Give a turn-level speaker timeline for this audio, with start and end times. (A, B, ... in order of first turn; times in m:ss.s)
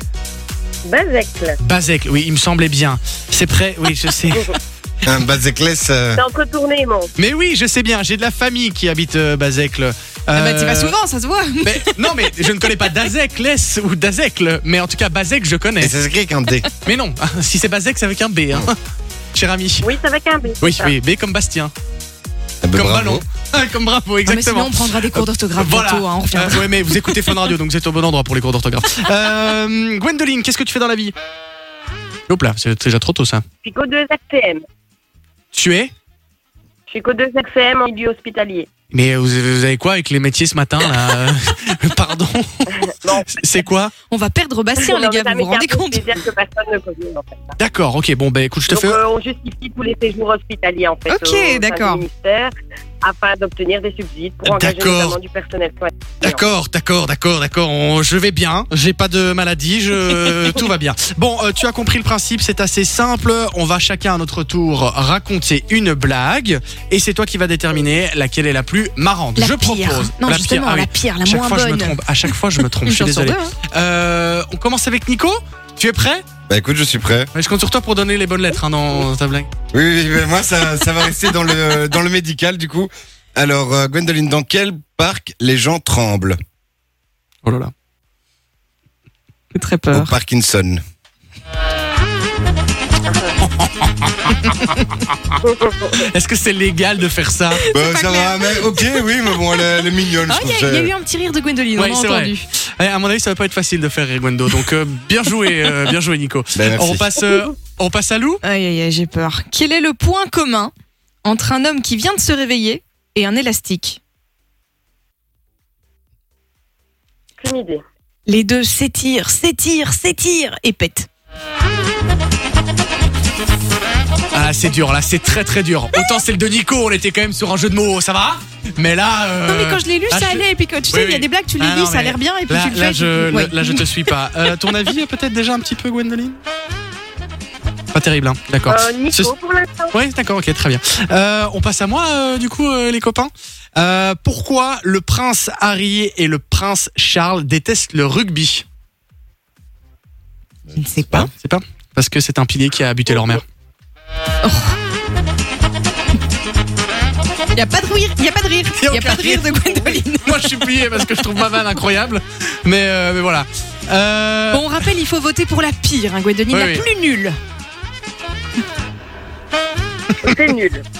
0:00.8-0:01.6 A
0:01.6-0:04.6 B
0:05.0-0:06.2 C
0:06.1-0:07.1 A
0:07.2-0:10.9 B
0:10.3-0:12.9 D
0:11.6-0:15.9 B
0:15.8-0:16.7 C
0:16.8-0:18.8 B
0:19.3-0:19.9 B
0:19.8-0:20.9 A
0:20.6-0:21.7 B
0:22.6-0:23.2 C
0:22.7-0:31.1 B
0:24.2-0:27.4 D
0:32.3-0:33.4 B
0:33.6-0:34.6 A
0:35.5-0:35.9 B
0:36.9-0:38.7 A
0:38.9-0:43.9 B
0:42.7-0:43.4 A
0:44.1-0:46.1 D
0:44.8-0:47.5 A
0:47.6-0:49.0 B
0:48.7-0:56.4 A
0:51.1-0:52.0 D
0:54.4-0:55.2 B
0:56.2-1:16.2 B
1:09.4-1:13.6 D
1:16.5-1:17.3 C
1:17.3-1:19.5 B
1:19.7-1:26.4 C
1:27.4-1:27.7 B
1:29.5-1:30.1 D
1:29.9-1:30.8 C
1:33.4-1:35.0 B
1:35.4-1:35.8 A
1:35.8-1:37.6 B
1:37.5-1:39.0 D
1:37.7-1:40.9 C
1:40.3-1:42.4 D
1:41.8-1:48.4 B
1:46.5-1:47.2 C
1:48.4-1:50.7 D
1:51.2-1:54.0 D
1:57.4-1:57.8 A
1:58.3-2:01.1 D
2:04.3-2:16.4 B
2:09.4-2:14.1 D
2:17.9-2:19.3 B
2:18.7-2:19.9 A
2:19.9-2:28.6 B
2:30.7-2:31.3 D
2:31.1-2:33.4 B
2:34.4-2:34.7 D
2:37.5-2:40.6 D
2:38.8-2:44.8 B
2:44.5-2:47.4 D
2:46.5-2:46.8 B
2:50.2-2:50.8 A